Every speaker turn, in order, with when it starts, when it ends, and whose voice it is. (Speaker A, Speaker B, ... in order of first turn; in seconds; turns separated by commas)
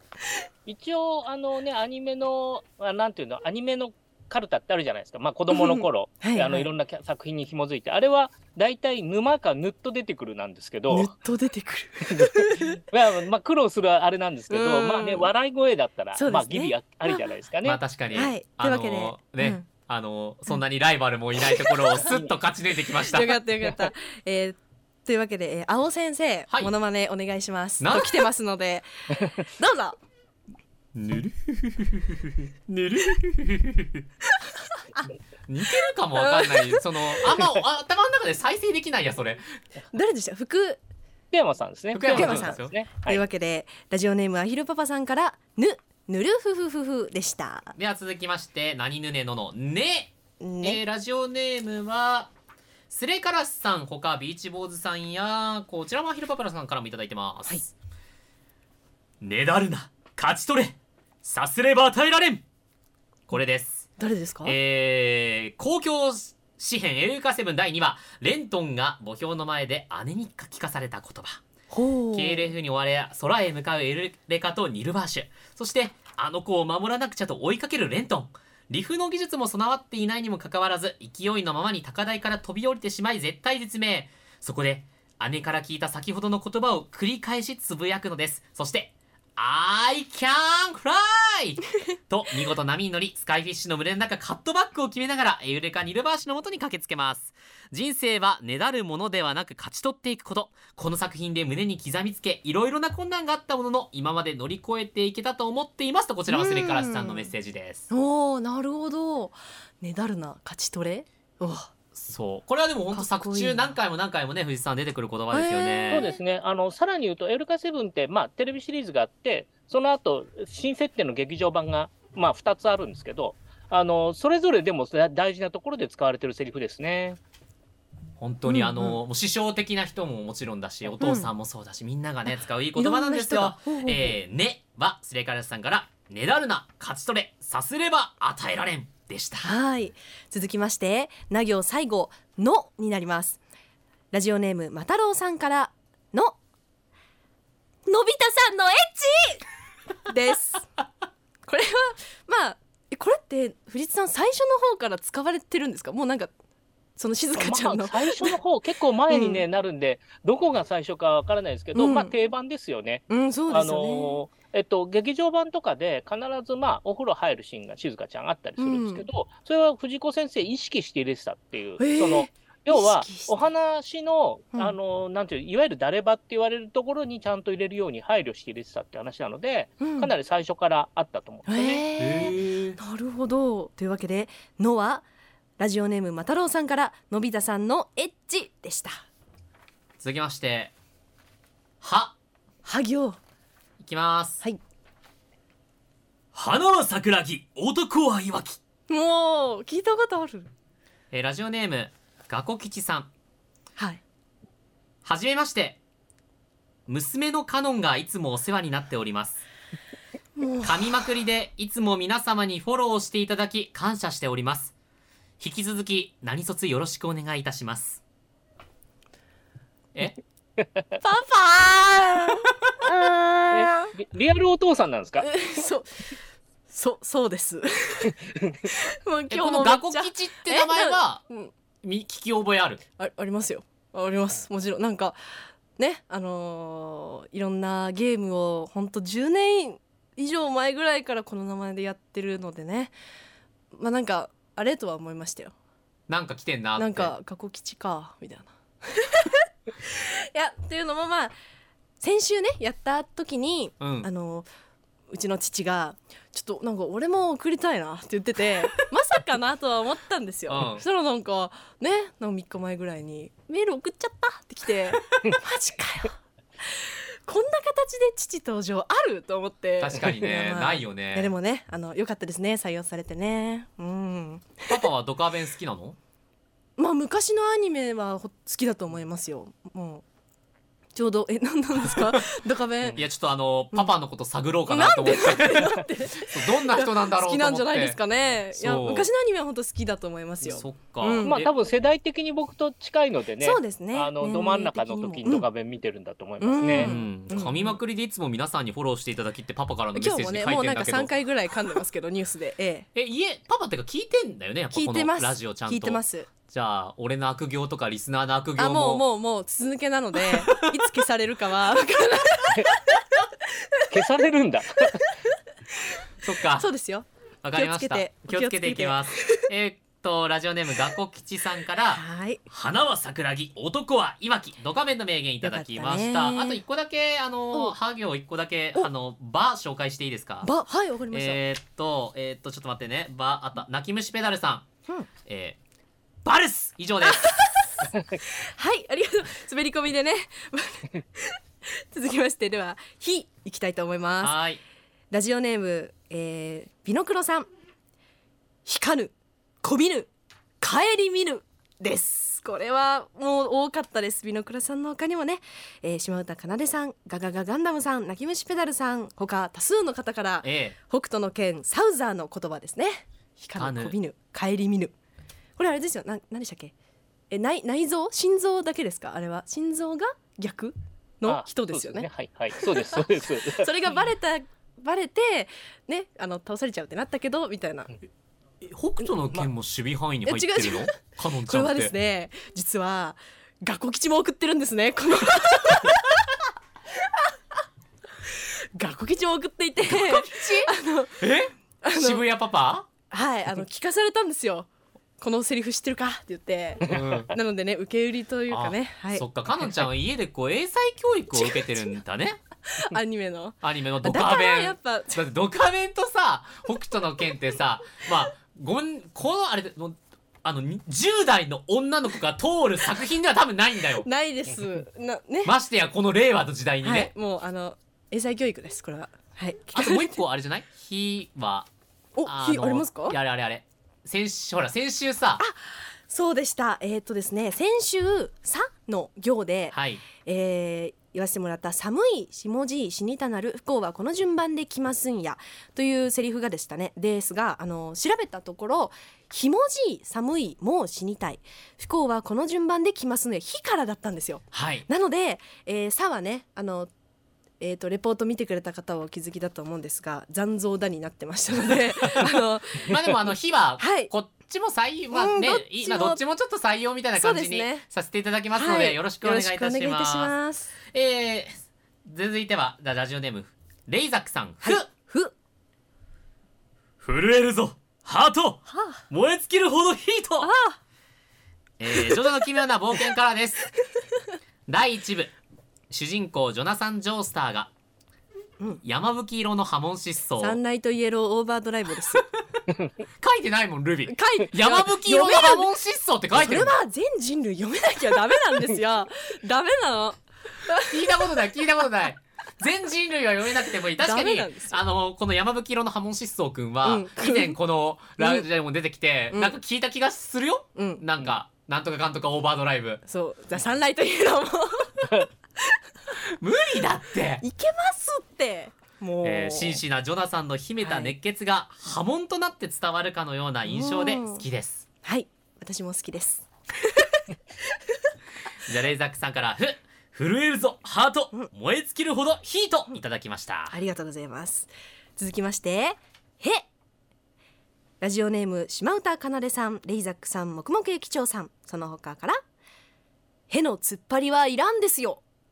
Speaker A: 0.7-11.1, Speaker B: 5.5-6.7, Speaker B: 10.9-12.8, Speaker A: 12.1-18.2, Speaker B: 14.5-15.3, Speaker B: 16.1-17.2, Speaker C: 17.6-23.4, Speaker B: 18.1-19.6, Speaker B: 21.6-22.0, Speaker B: 23.1-30.0, Speaker C: 27.8-28.2, Speaker C: 30.9-34.0, Speaker B: 34.3-35.1, Speaker C: 35.5-39.4, Speaker B: 36.1-37.3, Speaker B: 39.9-40.8, Speaker A: 41.3-43.2, Speaker C: 41.9-42.7, Speaker B: 42.1-47.7, Speaker C: 47.8-52.3, Speaker B: 50.4-50.8, Speaker C: 52.9-57.7, Speaker C: 59.2-62.4, Speaker C: 63.3-63.9, Speaker B: 64.0-64.5, Speaker C: 64.4-71.4, Speaker B: 71.7-72.5, Speaker C: 72.1-107.8, Speaker B: 106.3-107.3, Speaker B: 107.9-111.7, Speaker C: 111.9-116.1, Speaker B: 112.9-113.8, Speaker B: 115.3-116.2, Speaker A: 115.9-127.2, Speaker C: 128.2-139.5, Speaker B: 128.5-129.0, Speaker B: 131.0-131.3, Speaker B: 132.7-134.2, Speaker B: 139.4-143.4, Speaker B: 144.1-146.4, Speaker B: 147.8-149.4, Speaker B: 150.1-150.7, Speaker B: 151.5-156.3, Speaker B: 156.9-158.3, Speaker A: 157.3-181.8, Speaker B: 159.1-159.4, Speaker B: 161.7-162.1, Speaker B: 163.1-164.2, Speaker B: 168.6-169.0, Speaker B: 171.8-173.5, Speaker B: 179.8-180.1, Speaker B: 181.5-185.1, Speaker C: 182.0-182.8, Speaker B: 185.6-189.0, Speaker C: 190.0-190.7, Speaker C: 191.8-192.1, Speaker B: 192.6-193.2, Speaker C: 193.8-194.4, Speaker C: 196.3-198.6, Speaker B: 198.9-200.5, Speaker C: 201.1-203.1, Speaker C: 205.0-205.8, Speaker C: 206.9-209.4, Speaker B: 210.3-210.9, Speaker C: 210.6-214.7, Speaker C: 215.4-218.0, Speaker B: 221.0-223.9, Speaker A: 223.5-225.3, Speaker B: 225.2-226.1, Speaker B: 226.7-231.5, Speaker C: 229.3-231.2, Speaker C: 231.8-232.8, Speaker B: 233.0-235.2, Speaker B: 235.8-242.9, Speaker B: 243.7-245.5, Speaker C: 246.1-247.1, Speaker B: 246.8-251.3, Speaker B: 252.0-254.5, Speaker C: 253.8-254.1, Speaker B: 255.1-274.8, Speaker C: 260.5-260.8, Speaker C: 269.8-271.3, Speaker C: 274.7-275.9, Speaker B: 276.8-280.0, Speaker B: 280.9-283.0, Speaker C: 282.9-288.0, Speaker B: 284.7-291.5, Speaker C: 288.5-289.1, Speaker C: 290.4-291.5, Speaker A: 291.2-296.9, Speaker B: 293.4-295.4, Speaker B: 296.4-297.8, Speaker C: 296.6-301.1, Speaker B: 299.9-302.9, Speaker C: 302.9-309.0, Speaker B: 304.7-306.3, Speaker B: 308.6-313.0, Speaker B: 313.5-313.9, Speaker A: 313.9-315.1, Speaker C: 316.2-316.7, Speaker B: 316.5-319.5, Speaker C: 317.4-330.5, Speaker B: 321.9-322.4, Speaker B: 325.4-326.6, Speaker B: 330.4-331.4, Speaker C: 331.1-334.7, Speaker C: 335.2-335.6, Speaker C: 336.2-337.4, Speaker B: 337.1-344.4, Speaker C: 344.2-344.6, Speaker B: 345.1-347.5, Speaker B: 348.6-350.1, Speaker B: 350.6-364.9, Speaker C: 360.4-360.7, Speaker C: 363.6-363.9, Speaker B: 365.6-366.7, Speaker B: 367.3-377.9, Speaker A: 371.2-373.7, Speaker C: 378.6-381.9, Speaker B: 380.2-386.1, Speaker B: 387.0-387.3, Speaker B: 388.2-391.3, Speaker C: 389.9-392.9, Speaker B: 391.8-392.2, Speaker B: 393.1-394.7, Speaker B: 395.2-399.7, Speaker C: 396.9-397.3, Speaker C: 398.5-402.4, Speaker B: 401.3-402.0, Speaker B: 402.6-405.3, Speaker C: 403.6-414.1, Speaker B: 414.0-415.5, Speaker C: 415.4-417.1, Speaker B: 416.8-420.2, Speaker C: 419.7-421.7, Speaker B: 422.1-423.1, Speaker C: 422.2-425.4, Speaker B: 425.4-446.9, Speaker C: 429.7-430.0, Speaker C: 444.5-444.9, Speaker B: 447.6-453.1, Speaker C: 452.8-460.3, Speaker B: 453.8-454.1, Speaker B: 455.1-456.2, Speaker B: 457.2-457.9, Speaker B: 458.5-460.7, Speaker C: 460.9-464.9, Speaker B: 464.6-465.3, Speaker C: 467.0-470.5, Speaker B: 468.7-469.0, Speaker B: 470.4-470.8, Speaker C: 471.8-473.7, Speaker C: 474.7-475.3, Speaker C: 475.9-477.7, Speaker C: 478.8-480.6, Speaker B: 480.4-482.2, Speaker C: 483.2-486.8, Speaker B: 484.1-485.7, Speaker B: 486.3-491.3, Speaker C: 490.8-503.0, Speaker B: 494.0-494.8, Speaker B: 496.8-497.6, Speaker B: 498.2-498.5, Speaker B: 500.8-501.0, Speaker B: 503.1-505.3, Speaker C: 506.4-507.4, Speaker B: 507.4-509.8, Speaker C: 509.2-514.9, Speaker B: 510.8-511.1, Speaker B: 513.6-514.4, Speaker B: 515.0-517.3, Speaker C: 518.6-523.8, Speaker B: 523.7-526.6, Speaker B: 528.0-532.4, Speaker B: 533.5-535.2